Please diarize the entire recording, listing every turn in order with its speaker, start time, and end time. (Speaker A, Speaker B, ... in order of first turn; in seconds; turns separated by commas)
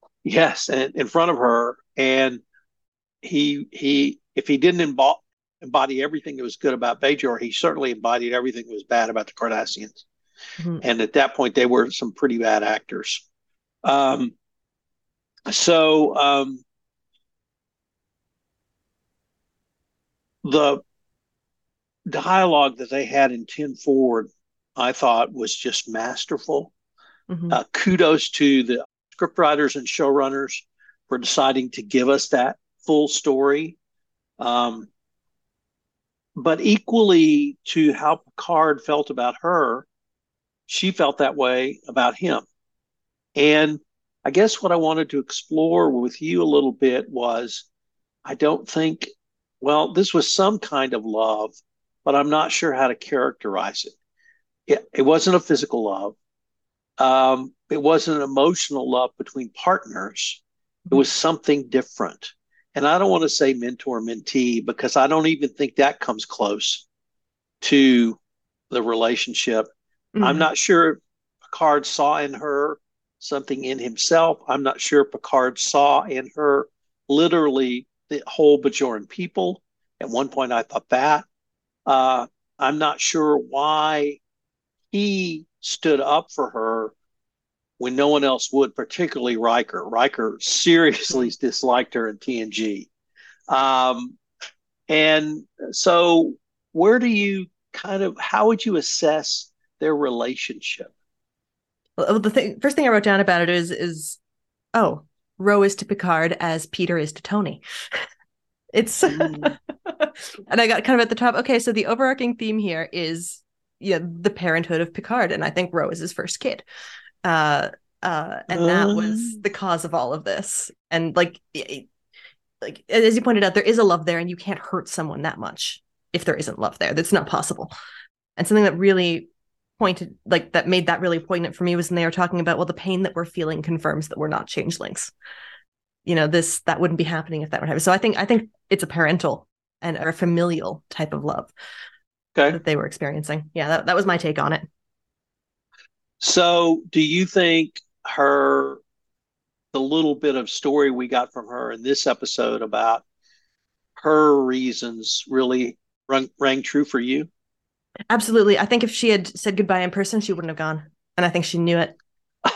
Speaker A: 0.2-2.4, Speaker A: 3.2-10.0, Speaker A: 10.8-13.2, Speaker A: 13.8-14.3, Speaker A: 15.5-16.6, Speaker A: 20.4-20.8, Speaker A: 22.1-26.7, Speaker B: 27.3-27.6, Speaker A: 27.5-33.8, Speaker A: 34.4-34.9, Speaker A: 36.4-39.9, Speaker A: 40.7-42.4, Speaker A: 43.4-47.6, Speaker A: 48.2-53.9, Speaker A: 54.7-56.1, Speaker A: 57.0-66.8, Speaker A: 67.6-68.2, Speaker A: 68.7-69.7, Speaker B: 70.1-70.5, Speaker A: 70.2-81.2, Speaker A: 81.9-84.2, Speaker A: 84.9-86.9, Speaker A: 87.8-92.9, Speaker A: 93.5-94.2, Speaker A: 94.9-100.9, Speaker B: 102.0-104.2, Speaker B: 104.7-108.0, Speaker B: 108.7-116.6, Speaker A: 109.0-109.5, Speaker B: 117.2-121.9, Speaker A: 118.5-119.4, Speaker B: 122.6-127.7, Speaker B: 128.4-129.3, Speaker B: 129.8-135.1, Speaker B: 136.1-141.5, Speaker B: 142.5-144.7, Speaker A: 146.2-148.8, Speaker A: 149.7-153.0, Speaker A: 154.0-157.3, Speaker B: 158.1-161.9